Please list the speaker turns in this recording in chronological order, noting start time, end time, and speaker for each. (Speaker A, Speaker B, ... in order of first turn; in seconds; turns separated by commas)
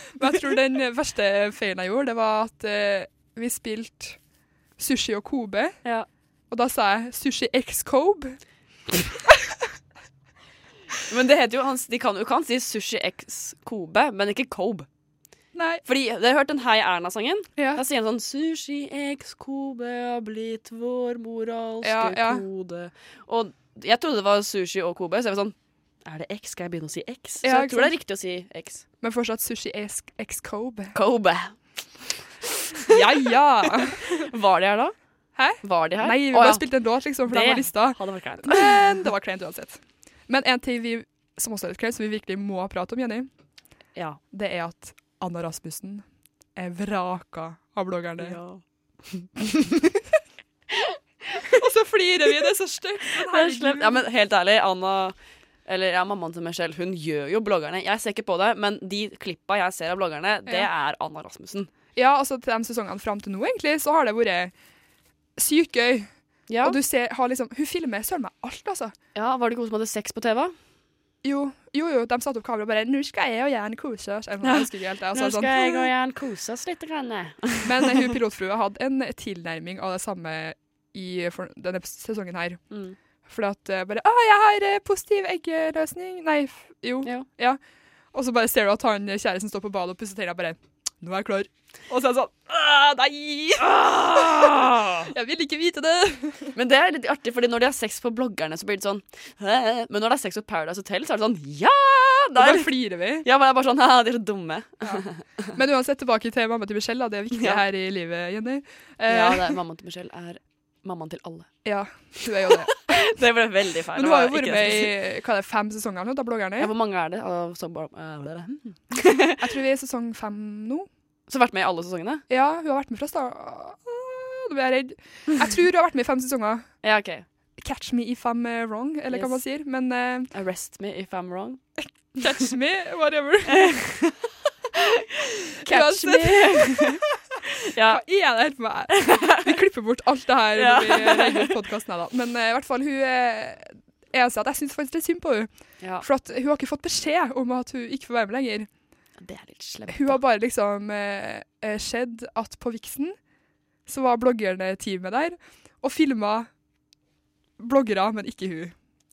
Speaker A: 0.2-4.2, Speaker A: 4.8-5.8, Speaker A: 6.5-8.4, Speaker B: 11.1-14.9, Speaker A: 15.6-15.8, Speaker B: 15.8-28.9, Speaker A: 17.6-17.8, Speaker A: 21.8-22.4, Speaker A: 27.4-28.0, Speaker A: 29.0-30.9, Speaker B: 30.9-31.6, Speaker B: 32.6-33.0, Speaker A: 32.9-34.2, Speaker B: 33.8-34.9, Speaker A: 35.4-43.3, Speaker B: 35.6-36.7, Speaker B: 37.2-38.8, Speaker A: 44.3-46.0, Speaker A: 46.6-48.4, Speaker B: 48.2-49.3, Speaker B: 50.7-51.6, Speaker A: 51.5-54.1, Speaker B: 53.1-55.1, Speaker B: 55.7-61.7, Speaker A: 62.0-64.5, Speaker A: 65.4-66.1, Speaker B: 66.5-66.8, Speaker A: 66.6-68.9, Speaker B: 69.2-70.5, Speaker A: 71.2-75.9, Speaker B: 74.4-77.8, Speaker A: 77.6-82.6, Speaker B: 82.7-83.0, Speaker A: 83.3-87.6, Speaker A: 88.1-96.5, Speaker B: 93.6-95.1, Speaker B: 96.5-105.4, Speaker A: 102.4-103.3, Speaker A: 104.8-109.6, Speaker B: 107.3-107.6, Speaker B: 109.1-111.5, Speaker A: 111.6-112.9, Speaker B: 112.7-114.9, Speaker A: 113.9-116.7, Speaker B: 116.6-119.4, Speaker A: 119.4-120.9, Speaker B: 121.3-122.2, Speaker A: 122.3-126.7, Speaker B: 126.8-127.2, Speaker A: 127.6-130.3, Speaker B: 129.1-129.4, Speaker B: 130.3-131.6, Speaker A: 132.2-133.8, Speaker B: 133.5-134.2, Speaker B: 135.6-138.0, Speaker A: 135.7-137.1, Speaker A: 137.8-145.5, Speaker B: 138.9-139.6, Speaker B: 140.6-141.6, Speaker B: 145.8-146.1, Speaker A: 146.0-148.7, Speaker B: 149.2-150.2, Speaker A: 149.9-153.2, Speaker A: 153.9-156.5, Speaker A: 157.6-158.7